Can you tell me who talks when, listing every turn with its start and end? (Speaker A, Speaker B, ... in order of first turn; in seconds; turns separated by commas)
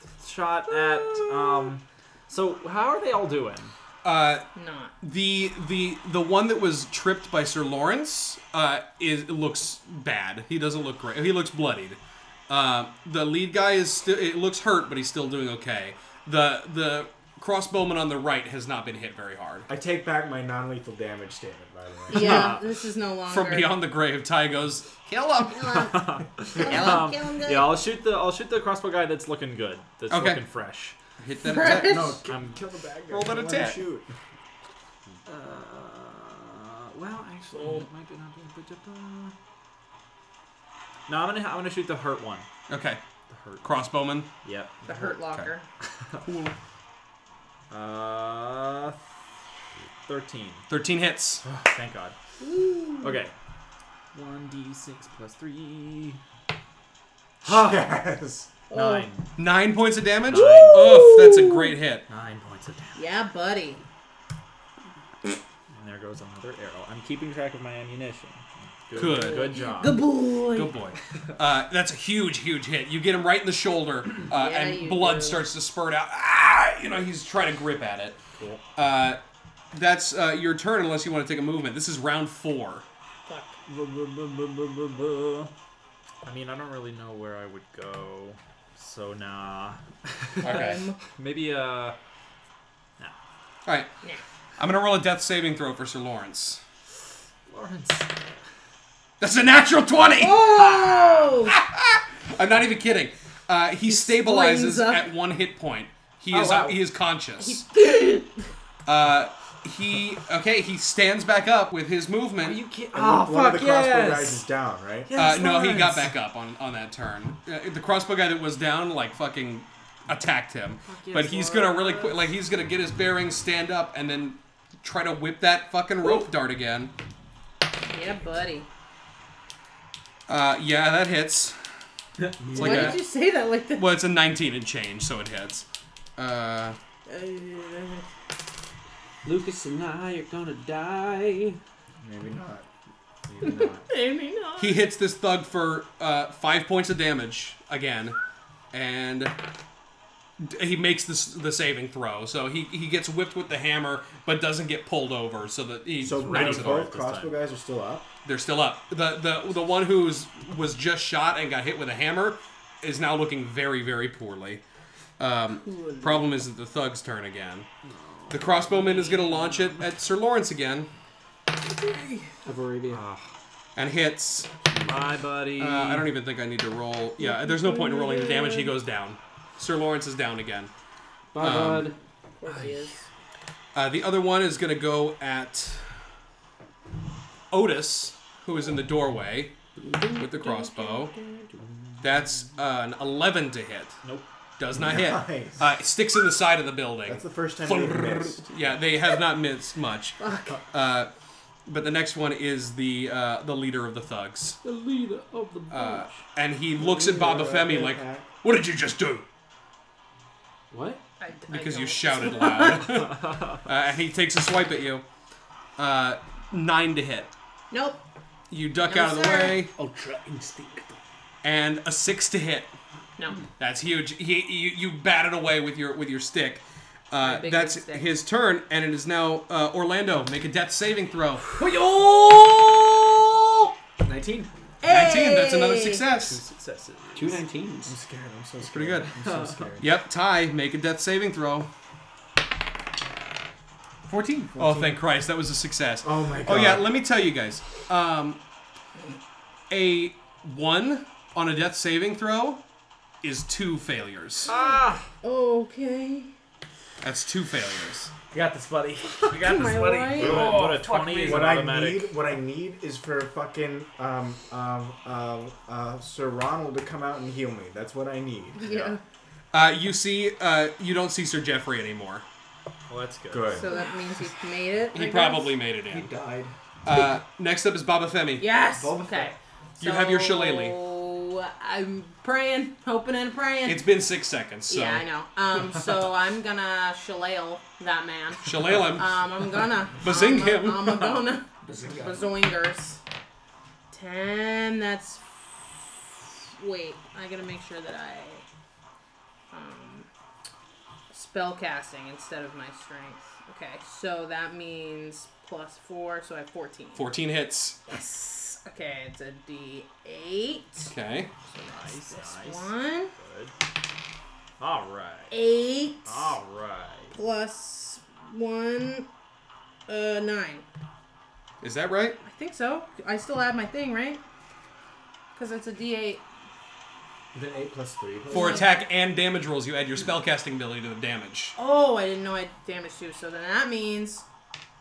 Speaker A: 0.2-3.7, Speaker B: 1.1-1.7, Speaker C: 4.0-4.5, Speaker B: 4.5-4.9, Speaker C: 5.0-19.7, Speaker D: 19.7-22.6, Speaker B: 22.1-23.8, Speaker A: 22.1-22.6, Speaker C: 23.3-25.9, Speaker B: 25.5-27.8, Speaker A: 25.7-31.0, Speaker C: 26.6-27.1, Speaker C: 30.1-30.4, Speaker C: 31.2-32.2, Speaker B: 31.4-32.2, Speaker D: 31.8-34.1, Speaker A: 31.9-32.6, Speaker C: 33.1-33.8, Speaker A: 35.3-39.4, Speaker A: 41.1-42.5, Speaker C: 42.7-43.0, Speaker A: 43.3-43.8, Speaker C: 43.6-44.3, Speaker A: 44.4-45.2, Speaker B: 44.9-45.7, Speaker C: 46.2-46.5, Speaker A: 47.7-49.0, Speaker A: 50.1-50.7, Speaker C: 50.7-51.4, Speaker A: 51.4-52.1, Speaker B: 52.4-53.2, Speaker A: 53.0-53.3, Speaker A: 54.1-56.2, Speaker A: 57.4-57.9, Speaker D: 57.4-58.5, Speaker B: 58.7-59.1, Speaker A: 58.7-59.3, Speaker C: 59.4-62.1, Speaker A: 60.3-61.0, Speaker B: 60.3-61.8, Speaker A: 62.1-63.1, Speaker B: 63.0-63.8, Speaker A: 65.7-70.0, Speaker C: 69.0-69.6, Speaker B: 69.0-70.7, Speaker C: 70.5-78.2, Speaker B: 74.3-75.4, Speaker C: 78.8-79.2, Speaker C: 79.7-82.8, Speaker B: 83.3-83.6, Speaker A: 83.7-85.5, Speaker A: 86.2-92.0, Speaker C: 90.4-90.9, Speaker B: 90.4-91.0, Speaker C: 93.7-93.9, Speaker C: 94.6-96.6, Speaker A: 97.5-98.3, Speaker C: 99.2-107.7, Speaker B: 100.2-101.6, Speaker A: 100.7-101.3, Speaker B: 103.9-105.1, Speaker A: 106.3-106.8, Speaker B: 107.4-108.4, Speaker C: 108.9-112.6, Speaker A: 112.4-114.5, Speaker D: 112.9-115.1, Speaker A: 115.1-116.1, Speaker C: 115.2-126.9, Speaker A: 120.8-122.3, Speaker B: 127.9-128.7, Speaker C: 130.3-131.6, Speaker A: 132.2-132.9, Speaker C: 132.5-133.1, Speaker E: 132.6-132.9, Speaker B: 132.6-133.9, Speaker C: 133.8-135.7, Speaker C: 136.2-136.8, Speaker B: 137.1-138.1, Speaker E: 139.2-141.6, Speaker D: 142.0-142.7, Speaker D: 143.3-143.8, Speaker B: 143.4-144.8, Speaker C: 144.6-148.2, Speaker C: 148.7-149.3, Speaker C: 150.4-156.9, Speaker D: 156.0-158.1, Speaker A: 156.2-157.4, Speaker C: 158.2-164.6, Speaker C: 165.2-167.7, Speaker B: 165.6-166.3, Speaker A: 167.8-169.8, Speaker C: 168.3-170.9, Speaker E: 172.4-173.0, Speaker A: 172.9-173.3, Speaker C: 173.8-174.5, Speaker A: 174.7-176.1, Speaker C: 175.6-180.7, Speaker B: 177.2-178.8, Speaker E: 181.3-181.9, Speaker C: 181.4-181.9, Speaker B: 182.4-183.0, Speaker A: 182.5-182.9, Speaker C: 183.7-185.8, Speaker C: 187.5-189.6, Speaker E: 189.8-191.6, Speaker C: 190.2-191.1, Speaker C: 192.0-194.0, Speaker C: 194.6-201.1, Speaker D: 194.8-195.7, Speaker D: 197.1-198.5, Speaker B: 200.2-200.6, Speaker C: 201.7-204.6, Speaker E: 204.6-206.0, Speaker C: 205.7-209.2, Speaker D: 206.8-208.2, Speaker E: 210.7-211.0, Speaker B: 211.2-213.1, Speaker C: 211.5-215.0, Speaker A: 212.9-213.6, Speaker C: 215.8-217.3, Speaker B: 217.7-218.0, Speaker C: 218.5-219.7, Speaker B: 218.8-219.6, Speaker E: 219.7-221.0, Speaker C: 221.4-222.7, Speaker B: 223.2-223.4, Speaker C: 223.6-231.4, Speaker B: 227.2-228.2, Speaker E: 231.6-232.9, Speaker A: 234.0-234.5, Speaker B: 234.8-236.1, Speaker C: 234.8-236.4, Speaker A: 236.1-237.4, Speaker E: 237.2-237.9, Speaker D: 237.8-240.0, Speaker C: 238.6-239.1, Speaker A: 239.1-239.8, Speaker C: 239.8-241.7, Speaker E: 244.1-244.6, Speaker D: 244.6-245.0, Speaker C: 244.6-248.4, Speaker D: 246.0-246.9, Speaker C: 249.7-252.6, Speaker C: 253.2-254.5, Speaker A: 254.5-255.1, Speaker B: 255.2-256.3, Speaker C: 257.0-258.1, Speaker E: 258.3-261.6, Speaker B: 259.3-260.6, Speaker A: 259.3-262.1, Speaker D: 260.2-268.9, Speaker B: 268.6-269.0, Speaker C: 269.5-272.2, Speaker A: 272.9-273.8, Speaker D: 273.3-273.7, Speaker B: 273.6-275.6, Speaker C: 274.9-276.1, Speaker E: 275.9-276.5, Speaker C: 276.8-278.5, Speaker B: 278.4-283.9, Speaker E: 278.8-279.3, Speaker C: 279.8-280.8, Speaker C: 283.7-285.1, Speaker B: 284.7-293.0, Speaker C: 288.4-289.2, Speaker C: 290.0-291.2, Speaker E: 291.6-292.3, Speaker B: 293.9-298.4, Speaker B: 299.5-300.1, Speaker B: 301.1-307.1, Speaker C: 307.0-307.8, Speaker B: 307.9-310.9, Speaker C: 310.9-311.3, Speaker A: 311.5-313.5, Speaker B: 311.6-313.1, Speaker A: 314.6-315.4, Speaker B: 315.3-316.4, Speaker A: 316.1-317.2, Speaker B: 317.1-319.1, Speaker B: 319.9-320.6, Speaker C: 321.6-322.2, Speaker B: 322.2-324.2, Speaker B: 325.4-326.2, Speaker D: 327.3-328.6, Speaker B: 328.3-328.8, Speaker C: 328.3-331.6, Speaker B: 331.6-334.2